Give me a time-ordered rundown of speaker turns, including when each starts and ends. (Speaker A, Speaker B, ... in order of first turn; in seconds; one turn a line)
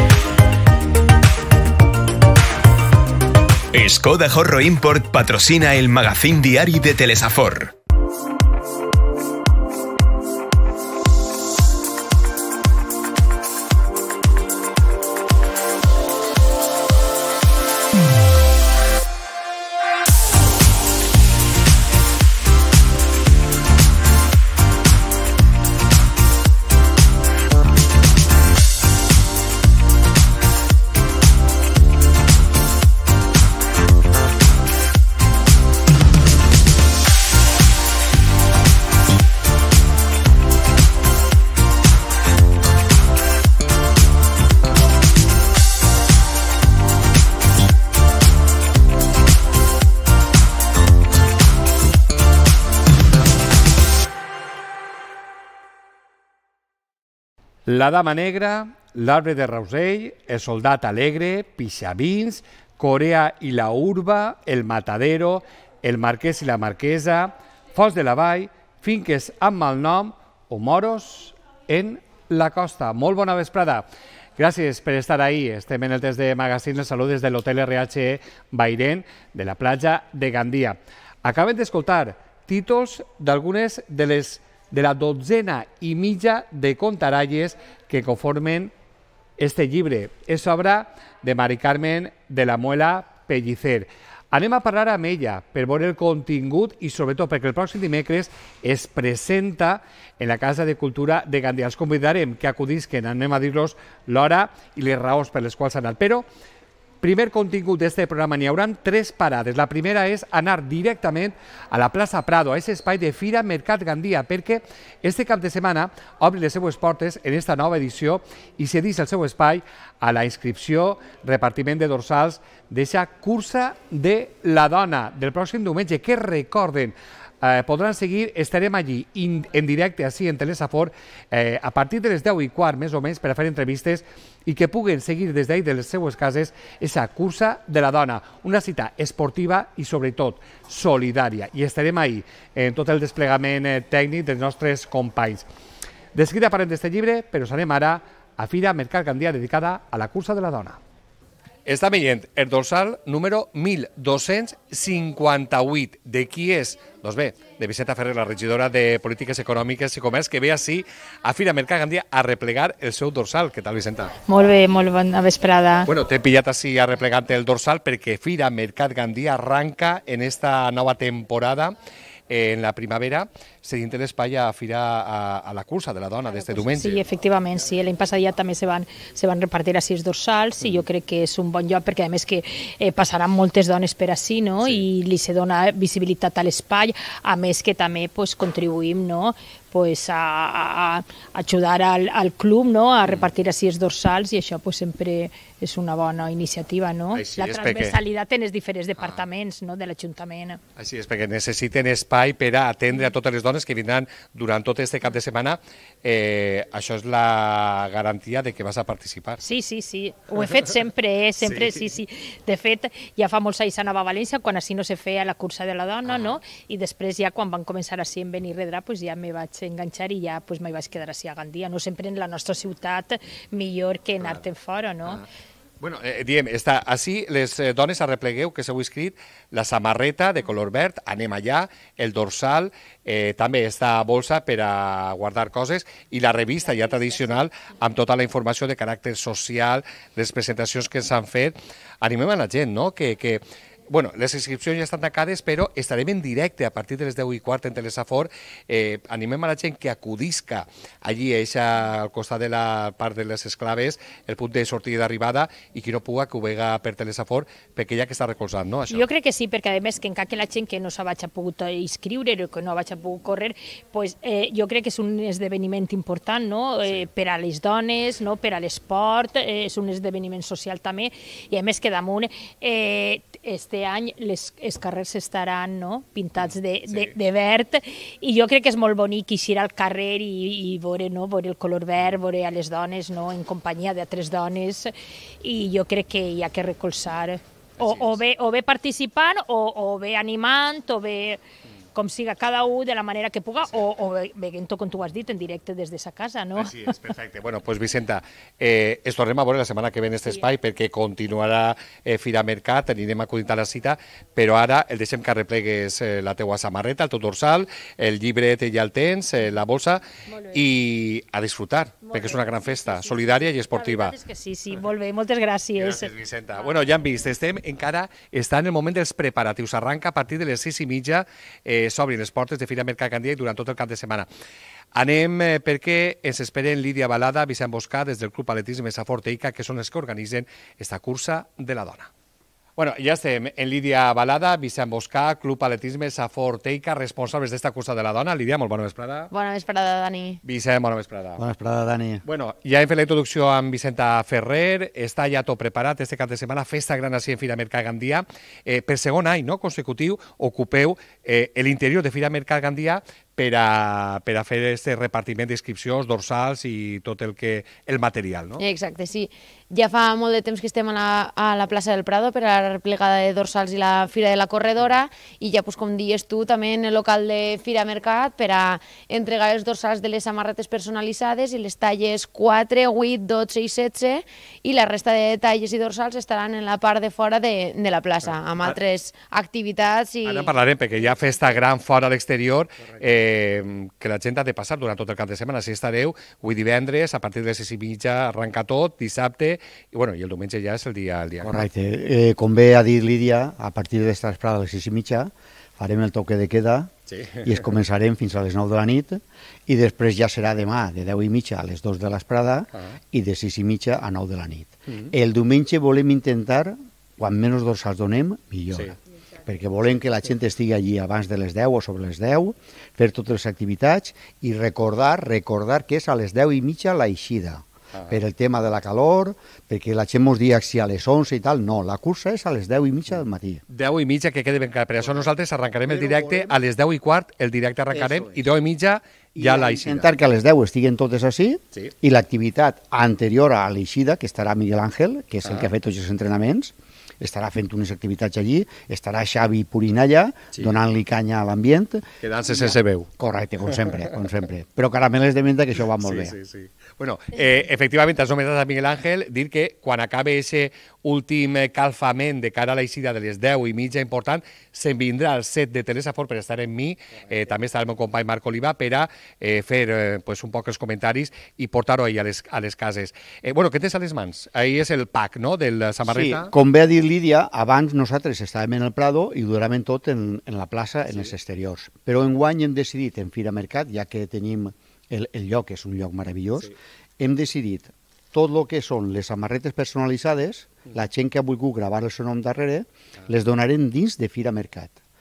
Speaker A: 3.7-7.7
Speaker B: 57.7-88.7
Speaker B: 89.4-106.3
Speaker B: 107.0-145.5
Speaker B: 146.1-150.8
Speaker B: 151.7-164.1
Speaker C: 164.3-165.9
Speaker B: 165.9-171.8
Speaker B: 172.3-177.0
Speaker C: 176.3-200.6
Speaker B: 197.1-198.0
Speaker B: 199.0-199.2
Speaker B: 200.8-209.4
Speaker C: 209.4-225.2
Speaker B: 211.4-211.8
Speaker B: 216.1-216.4
Speaker B: 225.8-259.1
Speaker C: 258.9-291.4
Speaker B: 276.4-277.2
Speaker B: 287.8-288.2
Speaker C: 291.9-296.8
Speaker B: 296.6-314.2
Speaker C: 312.1-316.1
Speaker B: 315.8-324.3
Speaker B: 324.9-332.1
Speaker B: 332.8-339.3
Speaker D: 339.3-340.4
Speaker B: 340.4-341.4
Speaker E: 341.4-342.2
Speaker B: 342.2-358.6
Speaker D: 358.6-380.6
Speaker B: 380.2-391.7
Speaker E: 391.4-423.6
Speaker B: 397.1-397.6
Speaker B: 423.7-430.1
Speaker E: 425.9-426.6
Speaker E: 427.9-428.3
Speaker E: 429.4-446.4
Speaker B: 435.4-435.7
Speaker B: 442.2-443.1
Speaker B: 446.0-466.5
Speaker E: 466.1-485.0